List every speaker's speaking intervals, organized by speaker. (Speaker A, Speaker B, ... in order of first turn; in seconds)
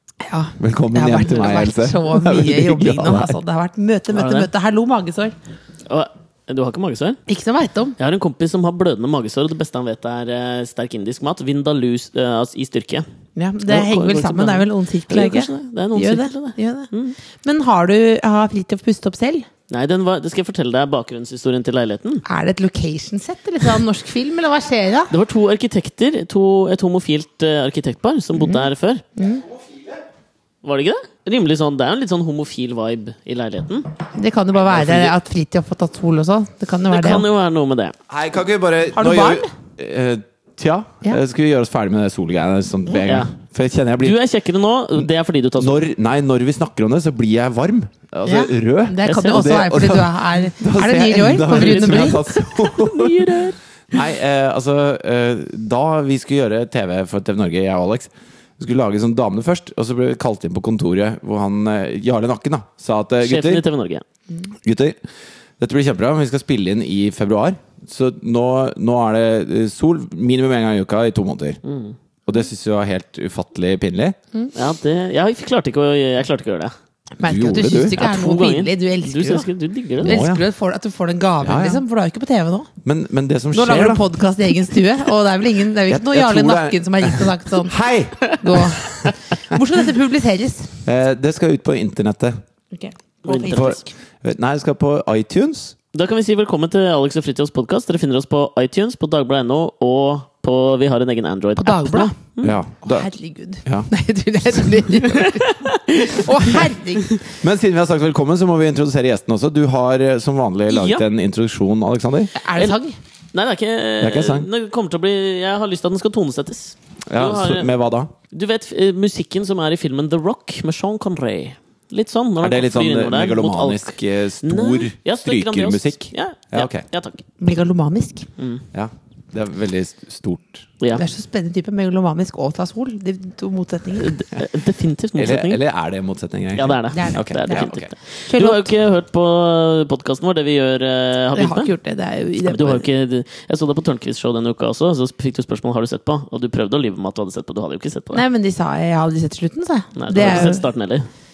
Speaker A: 0.2-5.3, 7.3-8.0, 13.3-19.5, 22.2-25.1, 28.4-29.4, 34.1-37.2, 39.0-39.5, 48.2-52.2, 77.2-79.5, 80.0-82.7, 83.5-87.8, 88.3-90.8, 92.7-93.9, 101.6-102.2, 102.8-107.2, 112.3-113.0, 127.4-128.3, 130.9-134.2, 136.9-138.7, 141.3-142.8, 148.1-150.6
Speaker B: 0.6-3.4, 34.8-35.1, 38.1-44.2, 45.6-63.6, 64.6-65.0, 65.6-71.6, 72.3-74.2, 77.2-78.0, 80.0-80.4, 81.4-81.8, 82.8-84.0, 85.9-89.1, 90.8-92.4, 93.5-95.8, 102.4-103.1, 107.4-112.3, 114.0-114.5, 117.1-118.1, 122.4-126.8, 128.7-130.7, 135.2-137.9
Speaker C: 4.1-4.5, 5.9-7.2, 8.0-13.1, 13.7-17.1, 19.7-22.2, 25.1-29.0, 30.6-33.9, 36.9-37.9, 43.0-43.3, 44.0-45.8, 49.0-49.5, 51.5-53.6, 63.2-64.0, 71.6-72.0, 74.5-76.7, 78.0-80.2, 93.2-93.8, 95.9-102.6, 105.0-106.3, 110.7-111.0, 113.3-117.7, 118.3-127.2, 128.4-128.6, 134.0-135.6, 136.5-141.7, 142.4-148.2, 149.9-151.1